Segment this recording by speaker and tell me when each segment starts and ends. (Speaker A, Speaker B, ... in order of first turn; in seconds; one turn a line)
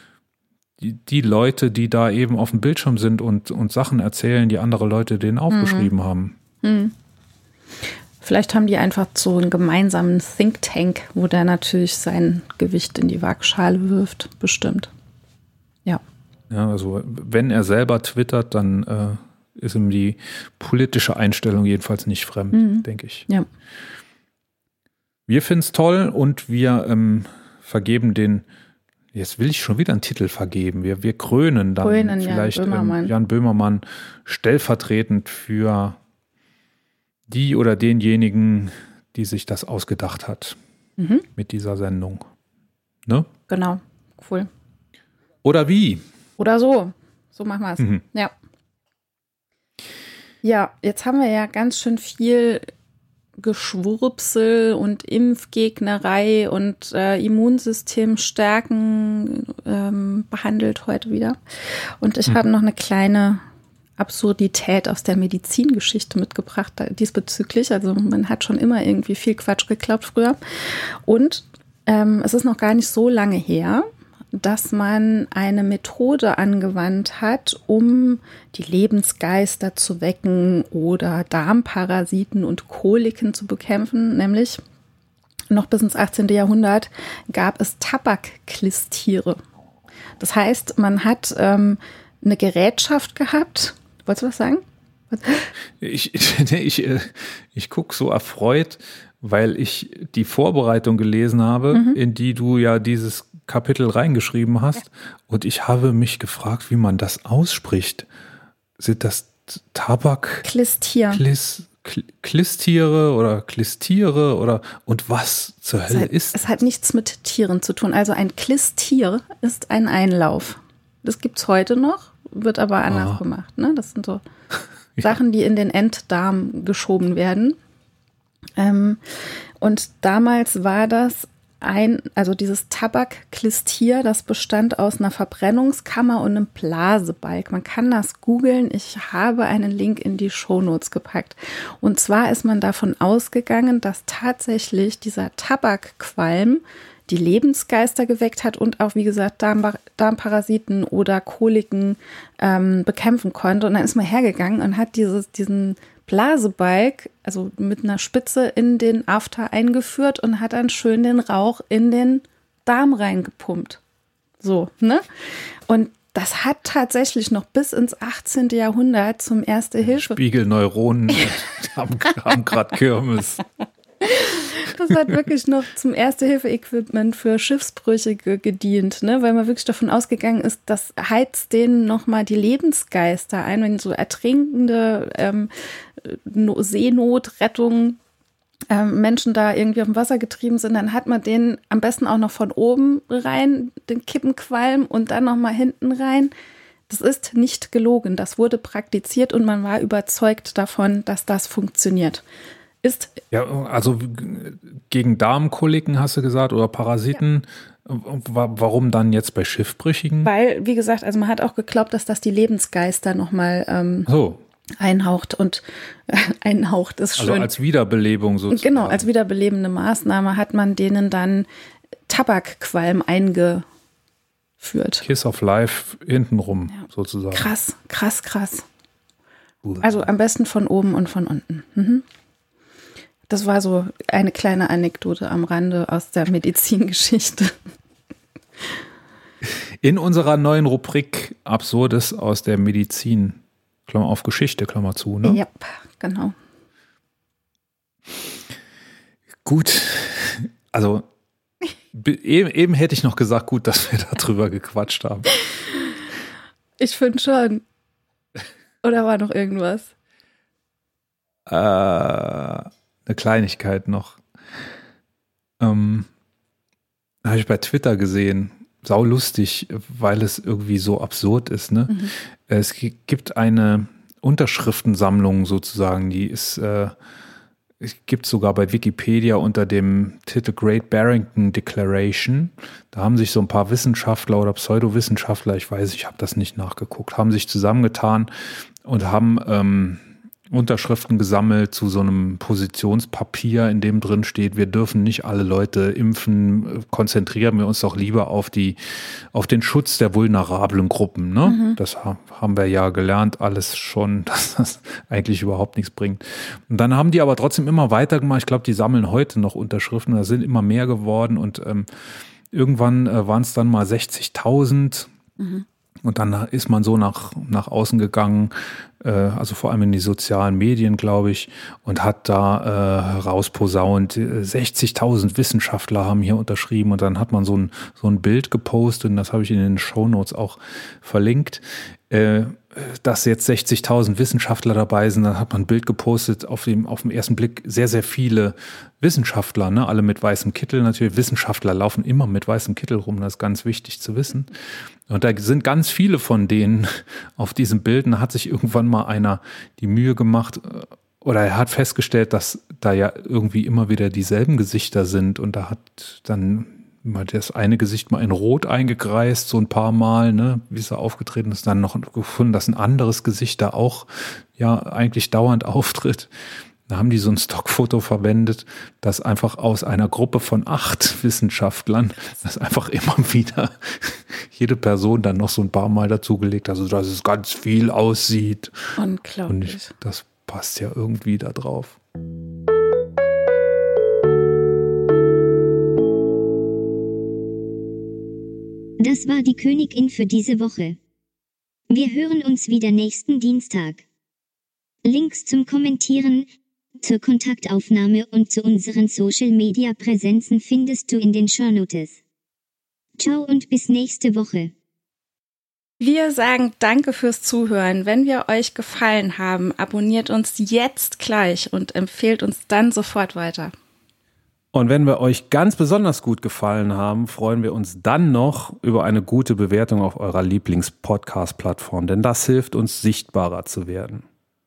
Speaker A: 0.8-6.4
Speaker B: 5.5-5.9
Speaker B: 6.6-6.9
Speaker B: 7.9-14.9
Speaker A: 16.5-23.3
Speaker B: 22.5-23.5
Speaker A: 25.3-28.4
Speaker A: 29.1-36.0
Speaker B: 31.8-33.1
Speaker A: 37.3-40.6
Speaker B: 41.0-41.3
Speaker A: 41.4-42.2
Speaker B: 43.5-44.5
Speaker A: 45.4-46.0
Speaker B: 46.4-48.3
Speaker B: 50.4-52.6
Speaker B: 53.4-63.4
Speaker B: 64.0-84.6
Speaker B: 85.5-89.4
Speaker B: 90.2-95.5
Speaker A: 95.8-108.1
Speaker B: 101.7-102.0
Speaker A: 108.8-110.5
Speaker B: 110.4-111.2
Speaker A: 111.1-116.5
Speaker B: 115.9-124.2
Speaker A: 122.9-123.2
Speaker B: 125.0-127.6
Speaker B: 128.6-163.8
Speaker B: 164.4-170.2
Speaker A: 169.8-173.4
Speaker B: 174.0-188.0
Speaker B: 188.7-196.3
Speaker B: 196.9-202.2
Speaker B: 202.8-203.2
Speaker A: 203.3-210.3
Speaker B: 210.2-214.1
Speaker A: 214.1-214.4
Speaker B: 214.8-217.5
Speaker A: 217.2-219.1
Speaker B: 218.5-221.5
Speaker B: 222.1-223.7
Speaker B: 224.6-225.1
Speaker A: 225.0-227.5
Speaker B: 227.3-228.7
Speaker A: 229.6-230.0
Speaker B: 229.8-232.1
Speaker B: 233.3-237.6
Speaker A: 239.4-245.4
Speaker B: 245.2-246.3
Speaker A: 249.4-251.1
Speaker A: 251.9-255.4
Speaker B: 256.8-257.6
Speaker B: 258.8-259.9
Speaker A: 261.5-264.2
Speaker A: 265.6-266.1
Speaker A: 267.2-276.9
Speaker A: 277.8-288.3
Speaker A: 288.8-311.9
Speaker B: 301.4-301.8
Speaker A: 312.5-315.1
Speaker B: 315.4-315.6
Speaker A: 316.1-344.5
Speaker A: 345.1-366.3
Speaker A: 366.9-378.8
Speaker B: 379.0-379.9
Speaker A: 379.5-382.0
Speaker C: 389.0-391.0
Speaker C: 391.9-394.0
Speaker C: 395.0-396.5
Speaker C: 397.0-402.2
Speaker C: 403.2-404.7
Speaker B: 406.0-413.7
Speaker A: 414.7-424.2